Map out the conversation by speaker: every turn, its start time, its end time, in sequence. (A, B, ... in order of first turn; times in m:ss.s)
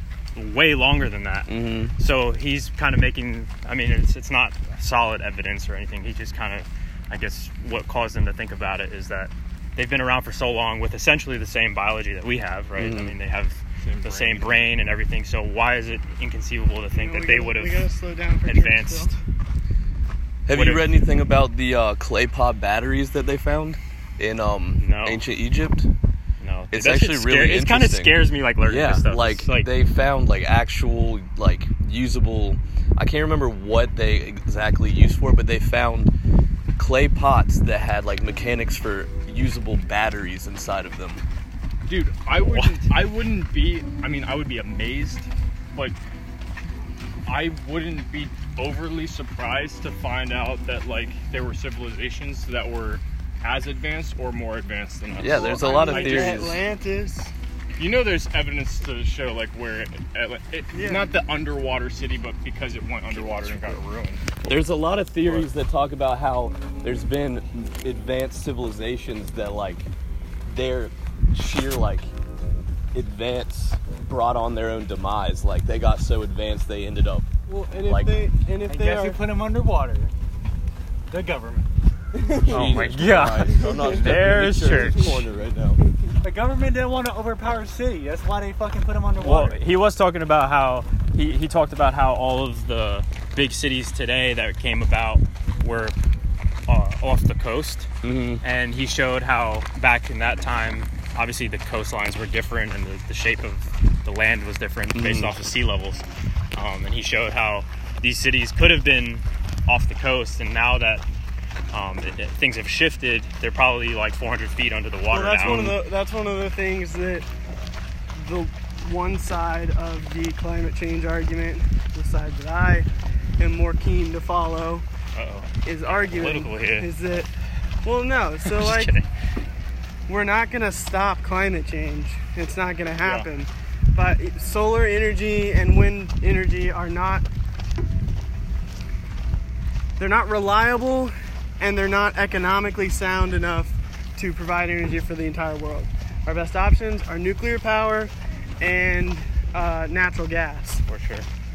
0:00.3-0:17.9 A
0:01.5-0:02.0 B
0:12.8-0:13.2 B
0:13.8-0:14.7 C
0:16.9-0:19.2 D
0:18.5-0:19.1 A
0:20.5-0:25.9 B
0:20.5-0:20.9 A
0:24.8-0:25.2 A
0:26.4-0:29.7 A
0:26.7-0:36.1 B
0:36.8-0:41.2 B
0:41.9-0:46.0 C
0:42.4-0:42.8 A
0:47.2-0:56.5 C
0:55.2-0:56.6 B
0:55.3-0:57.3 D
0:57.8-1:04.2 C
1:00.7-1:01.2 D
1:03.1-1:03.8 A
1:04.4-1:09.9 B
1:05.2-1:05.5 C
1:10.5-1:12.1 B
1:12.9-1:17.3 B
1:17.5-1:19.3 D
1:17.8-1:18.2 B
1:18.7-1:20.1 E
1:21.1-1:21.7 E
1:22.1-1:22.8 D
1:22.4-1:25.8 B
1:22.5-1:25.2 A
1:23.5-1:24.0 D
1:26.2-1:29.6 E
1:29.2-1:36.0 A
1:36.7-1:37.9 A
1:38.0-1:38.4 B
1:38.4-1:51.0 A
1:44.9-1:45.4 B
1:51.7-1:55.8 A
1:55.1-1:57.3 D
1:58.1-2:02.9 D
2:03.4-2:04.9 D
2:05.2-2:06.9 A
2:05.6-2:07.3 D
2:07.8-2:09.0 D
2:08.4-2:09.1 A
2:10.1-2:17.2 D
2:20.0-2:30.8 D
2:30.9-2:31.3 A